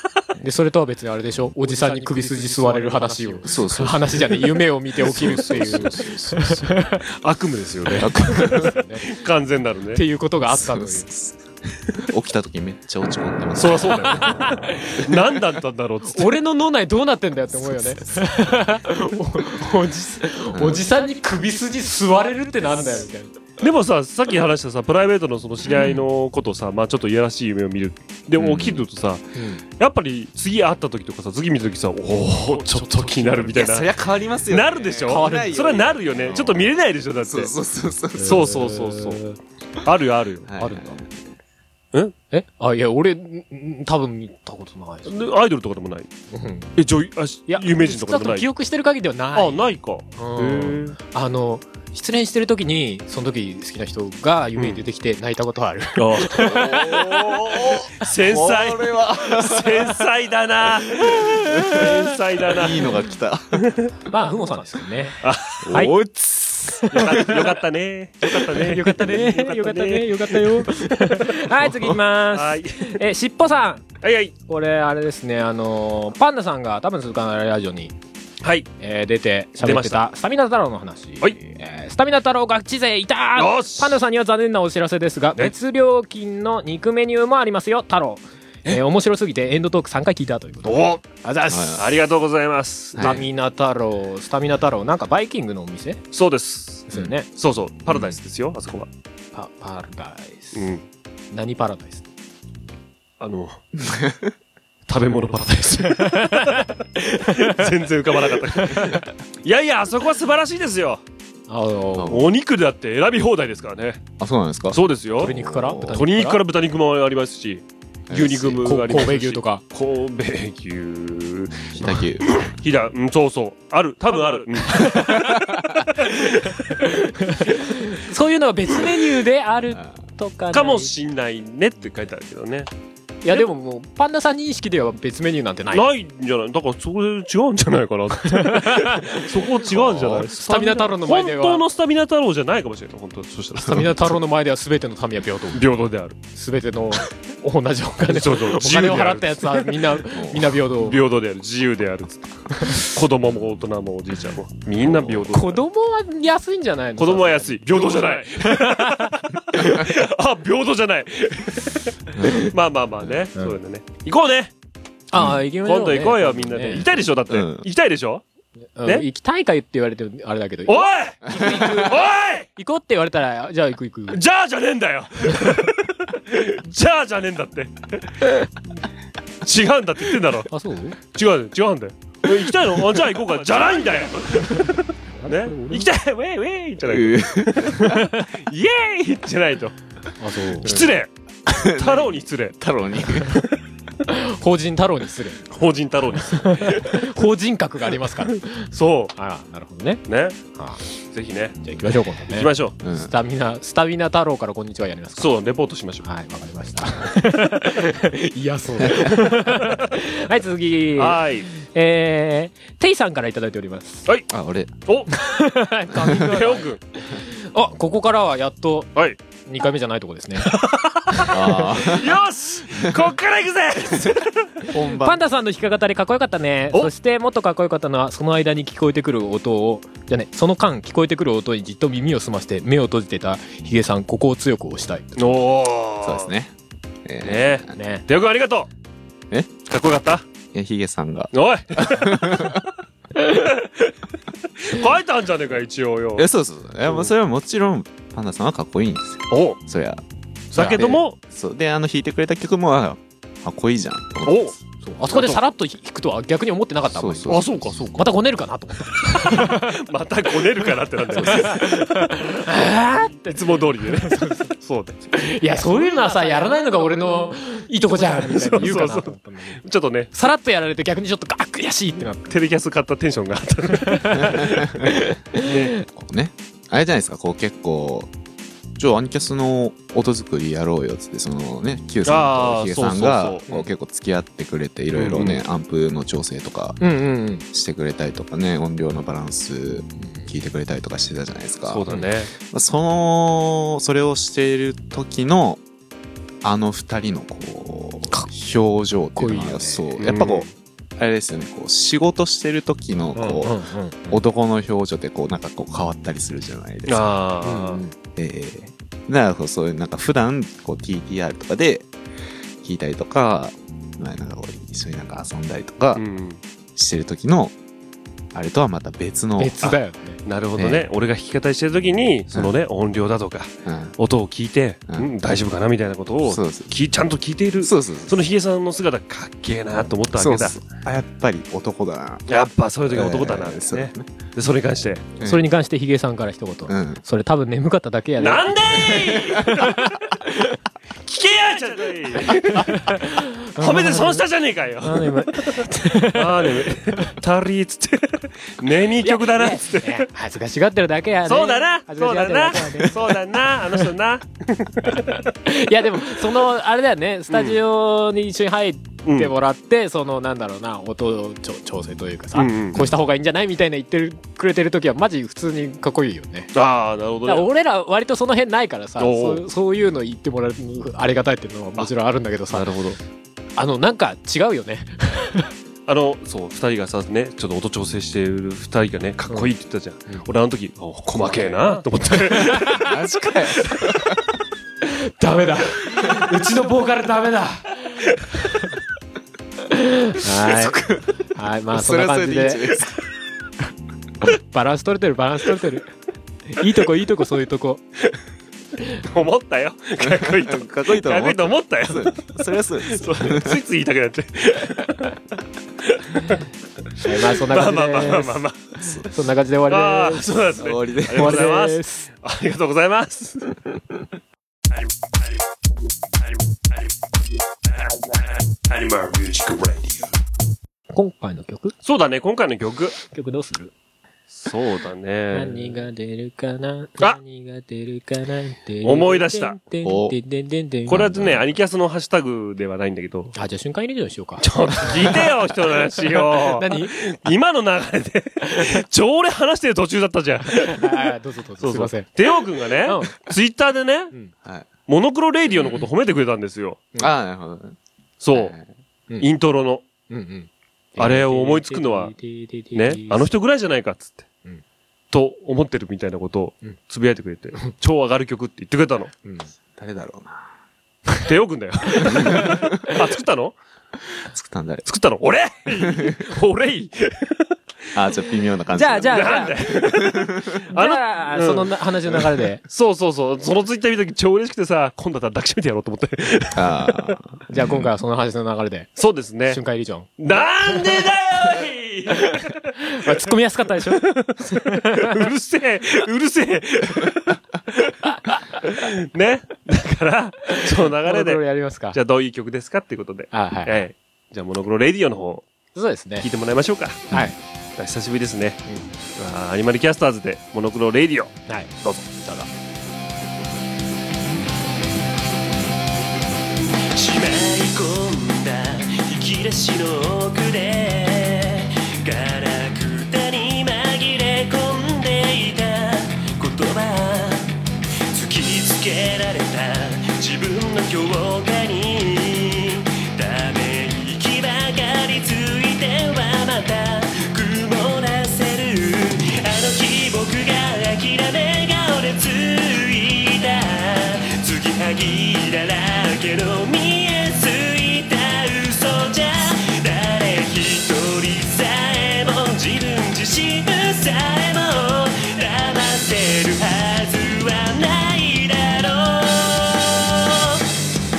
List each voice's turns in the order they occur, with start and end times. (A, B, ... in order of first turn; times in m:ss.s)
0:00.4-0:07.0 A
0:01.6-0:04.1 B
0:03.4-0:06.7 C
0:05.0-0:06.1 B
0:07.2-0:10.0 B
0:07.9-0:09.1 A
0:08.0-0:08.7 C
0:09.9-0:11.1 A
0:10.5-0:15.2 C
0:13.6-0:16.4 B
0:14.2-0:15.0 A
0:16.1-0:23.3 A
0:17.7-0:18.2 C
0:20.5-0:20.8 C
0:23.6-0:33.9 B
0:25.6-0:26.0 C
0:28.4-0:28.9 C
0:29.4-0:29.6 A
0:32.3-0:38.6 C
0:34.5-0:37.6 B
0:35.1-0:35.6 A
0:38.2-0:39.4 A
0:38.2-0:39.2 B
0:39.8-0:40.5 B
0:40.4-0:41.3 C
0:40.6-0:41.0 A
0:42.3-0:45.3 A
0:45.1-0:46.1 B
0:46.3-0:46.7 A
0:46.8-0:48.5 B
0:47.5-0:57.7 A
0:49.4-0:51.0 B
0:54.6-0:54.8 B
0:56.0-0:57.0 B
0:56.4-1:00.0 C
0:58.0-1:02.8 B
1:00.9-1:01.9 C
1:01.5-1:01.8 A
1:02.5-1:03.8 C
1:03.6-1:03.9 B
1:04.1-1:07.5 A
1:05.2-1:05.8 B
1:05.6-1:06.1 C
1:06.9-1:13.0 B
1:08.2-1:13.8 A
1:14.0-1:14.3 B
1:14.5-1:18.0 A
1:18.4-1:18.7 B
1:18.8-1:31.8 A
1:19.6-1:20.0 B
1:23.4-1:24.0 B
1:30.6-1:31.0 B
1:31.5-1:31.9 C
1:31.8-1:33.2 B
1:33.0-1:33.2 C
1:33.0-1:36.0 A
1:36.1-1:38.9 B
1:36.9-1:37.3 A
1:37.9-1:38.2 C
1:39.3-1:40.7 A
1:40.5-1:40.8 B
1:41.3-1:42.0 A
1:43.2-1:43.6 B
1:43.8-1:44.3 C
1:44.9-1:51.0 B
1:45.8-1:47.7 A
1:48.5-1:49.1 A
1:51.5-1:52.2 A
1:51.9-1:52.3 C
1:52.1-1:54.1 B
1:54.2-1:56.0 C
1:54.7-1:55.4 B
1:55.2-1:56.4 A
1:55.9-2:05.4 B
1:58.1-1:58.6 C
1:58.4-1:59.6 A
2:01.8-2:02.4 C
2:04.8-2:05.4 A
2:05.4-2:05.8 C
2:06.0-2:06.6 B
2:06.0-2:10.9 A
2:10.5-2:12.7 B
2:13.2-2:15.9 A
2:15.7-2:24.1 B
2:18.3-2:19.4 A
2:19.6-2:20.3 C
2:20.2-2:21.6 A
2:23.6-2:25.6 A
2:25.5-2:26.2 B
2:26.4-2:31.0 A
2:28.1-2:30.0 B
2:30.1-2:30.5 C
2:30.5-2:35.6 B
2:32.5-2:32.9 A
2:33.2-2:33.5 C
2:34.8-2:35.3 C
2:35.3-2:39.7 A
2:37.0-2:44.5 B
2:42.1-2:43.2 C
2:45.1-2:46.9 A
2:45.2-2:45.4 C
2:45.6-2:48.2 B
2:47.3-2:47.6 C
2:48.8-2:54.2 A
2:50.7-2:52.5 B
2:51.3-2:51.7 C
2:54.1-2:58.3 B
2:59.4-3:00.5 B
3:00.5-3:01.0 A
3:01.1-3:09.8 B
3:05.2-3:05.9 A
3:06.8-3:08.0 C
3:10.2-3:10.8 A
3:10.6-3:12.6 B
3:11.5-3:13.4 C
3:14.1-3:15.4 A
3:15.5-3:17.0 B
3:16.2-3:20.0 A
3:18.3-3:19.1 B
3:20.1-3:20.4 B
3:20.5-3:20.8 A
3:21.1-3:21.7 B
3:21.6-3:25.4 A
3:22.3-3:22.8 B
3:22.8-3:23.1 C
3:25.2-3:26.0 B
3:26.0-3:34.1 A
3:28.8-3:29.1 C
3:29.3-3:29.7 B
3:31.0-3:31.5 B
3:34.3-3:34.7 C
3:34.9-3:35.1 B
3:35.1-3:38.9 A
3:36.0-3:36.3 C
3:36.1-3:36.8 B
3:39.4-3:40.5 A
3:40.4-3:44.3 B
3:41.3-3:42.2 C
3:44.0-3:45.2 C
3:44.7-3:55.3 A
3:55.2-3:56.3 B
3:56.0-3:56.5 C
3:57.0-3:57.7 C
3:57.2-3:58.7 B
3:57.7-3:58.0 A
3:59.6-4:00.2 B
4:00.5-4:02.6 C
4:01.3-4:02.6 B
4:03.1-4:03.9 B
4:04.6-4:06.3 B
4:06.2-4:10.0 C
4:09.3-4:09.6 B
4:10.5-4:11.2 B
4:10.6-4:14.6 C
4:14.2-4:14.6 B
4:14.8-4:17.4 A
4:15.1-4:15.4 B
4:16.9-4:17.8 C
4:17.3-4:18.0 B
4:17.9-4:19.8 A
4:19.0-4:22.2 B
4:20.6-4:24.5 A
4:23.3-4:25.1 B
4:25.1-4:29.6 A
4:28.2-4:30.1 B
4:30.1-4:32.4 A
4:32.3-4:34.6 B
4:33.7-4:35.8 A
4:34.2-4:34.8 C
4:35.4-4:35.7 B
4:35.9-4:38.1 C
4:38.8-4:46.8 C
4:42.1-4:43.4 B
4:44.9-4:45.4 B
4:46.8-4:47.4 A
4:47.5-4:55.6 C
4:50.0-4:50.3 A
4:51.6-4:52.3 B
4:56.4-5:07.1 C
4:59.1-4:59.9 A
5:00.0-5:00.5 B
5:03.2-5:04.2 A
5:06.9-5:07.8 B
5:07.4-5:07.9 A
5:08.1-5:11.9 C
5:12.6-5:16.0 C
5:16.0-5:16.4 B
5:16.8-5:17.6 C
5:18.3-5:19.6 C
5:19.4-5:20.2 A
5:20.3-5:30.6 B
5:20.6-5:20.9 C
5:23.6-5:24.0 C
5:26.2-5:26.7 C
5:27.6-5:28.2 C
5:30.1-5:32.2 C
5:32.3-5:35.1 B
5:32.9-5:34.1 C
5:35.2-5:35.4 C
5:35.2-5:40.6 A
5:36.6-5:37.0 C
5:38.2-5:39.9 B
5:41.1-5:50.1 B
5:42.2-5:44.2 A
5:44.8-5:47.1 A
5:49.0-5:53.0 A
5:51.3-5:55.2 B
5:54.9-6:06.5 A
5:57.3-5:57.6 B
5:59.1-5:59.3 B
6:02.3-6:02.9 B
6:06.5-6:07.5 B
6:07.2-6:12.7 A
6:09.0-6:09.4 B
6:12.5-6:13.0 B
6:13.6-6:15.5 A
6:15.9-6:22.9 B
6:21.3-6:22.9 A
6:22.6-6:24.2 C
6:24.9-6:28.7 A
6:29.7-6:30.8 A
6:30.5-6:32.9 C
6:31.3-6:32.8 A
6:34.2-6:35.9 A
6:36.5-6:37.8 A
6:39.0-6:45.2 B
6:40.0-6:43.6 C
6:45.8-6:46.4 B
6:47.0-6:48.4 A
6:47.3-6:48.6 B
6:48.8-6:49.1 C
6:49.0-6:50.3 A
6:49.7-6:53.6 B
6:50.6-6:51.4 C
6:51.1-6:52.1 A
6:58.5-7:00.1 B
7:00.9-7:01.8 A
7:01.8-7:03.0 B
7:03.1-7:03.7 A
7:04.3-7:05.8 B
7:05.3-7:11.2 A
7:08.8-7:09.6 B
7:09.8-7:10.2 C
7:10.9-7:11.4 C
7:10.9-7:13.4 B
7:13.4-7:15.4 A
7:14.4-7:24.1 B
7:16.1-7:17.0 A
7:20.5-7:23.3 A
7:24.9-7:26.9 B
7:27.0-7:27.8 C
7:28.2-7:28.6 B
7:28.3-7:28.7 C
7:29.2-7:29.8 B
7:30.1-7:33.3 A
7:31.0-7:32.1 B
7:32.8-7:34.3 B
7:35.1-7:39.1 B
7:39.2-7:39.5 A
7:39.8-7:40.5 C
7:41.2-7:43.6 B
7:42.0-7:42.6 A
7:42.1-7:42.7 C
7:44.3-7:44.9 C
7:44.8-7:47.5 B
7:45.8-7:46.2 C
7:48.0-7:50.6 C
7:48.7-7:49.7 A
7:49.1-7:51.7 B
7:50.7-7:52.6 A
7:52.6-7:57.2 B
7:56.5-7:57.9 C
7:57.5-8:00.1 A
7:59.0-7:59.6 B
8:00.2-8:03.2 B
8:02.1-8:05.3 A
8:03.8-8:07.9 B
8:08.0-8:08.6 A
8:08.6-8:15.5 B
8:10.5-8:12.0 A
8:13.3-8:13.9 A
8:15.8-8:16.3 A
8:16.2-8:17.2 B
8:17.8-8:18.6 B
8:19.2-8:22.2 B
8:21.5-8:22.5 A
8:26.9-8:37.5 D
8:38.1-9:10.6 D